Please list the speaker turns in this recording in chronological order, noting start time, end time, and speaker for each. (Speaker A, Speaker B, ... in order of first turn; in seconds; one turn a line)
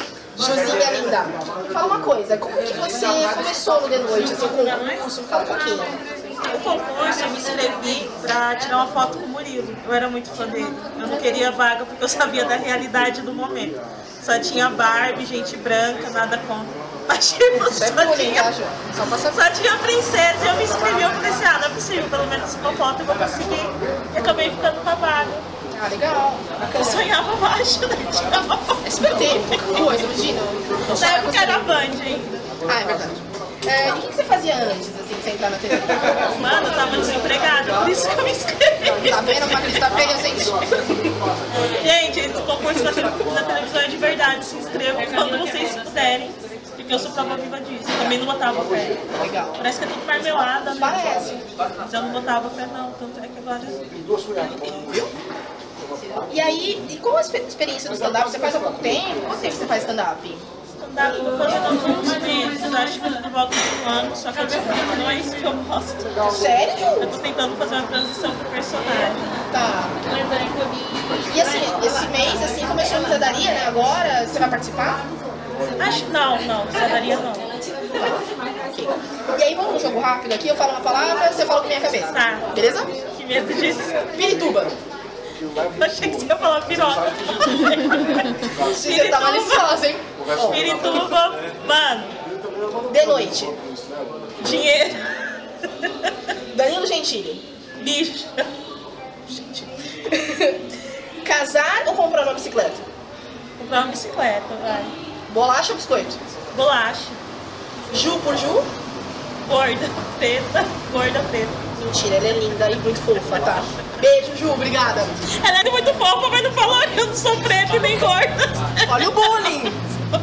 Speaker A: 0.3-6.0
Speaker B: 4.4-5.0
Speaker B: 6.4-18.5
Speaker A: 17.5-19.4
Speaker B: 19.2-25.4
Speaker A: 25.7-27.1
Speaker B: 26.7-29.7
Speaker A: 28.8-31.8
Speaker B: 30.9-32.4
Speaker A: 32.6-36.2
Speaker B: 36.0-39.9
Speaker A: 38.8-41.1
Speaker B: 41.6-55.1
Speaker A: 49.1-49.6
Speaker A: 50.2-51.4
Speaker A: 56.2-60.5
Speaker B: 60.7-66.4
Speaker A: 66.2-67.2
Speaker B: 67.0-69.3
Speaker A: 69.5-70.0
Speaker A: 71.2-75.0
Speaker B: 75.8-77.5
Speaker A: 77.9-82.9
Speaker B: 82.1-82.5
Speaker B: 83.1-84.0
Speaker A: 84.1-84.8
Speaker B: 85.6-89.7
Speaker A: 88.5-90.6
Speaker B: 90.3-92.1
Speaker A: 92.8-93.6
Speaker B: 94.4-96.3
Speaker A: 96.5-97.4
Speaker B: 97.8-98.5
Speaker A: 99.3-102.8
Speaker B: 103.6-104.9
Speaker A: 105.3-106.2
Speaker B: 106.5-107.2
Speaker A: 107.9-108.7
Speaker B: 109.4-111.6
Speaker A: 111.7-115.2
Speaker B: 115.3-119.3
Speaker A: 118.8-119.8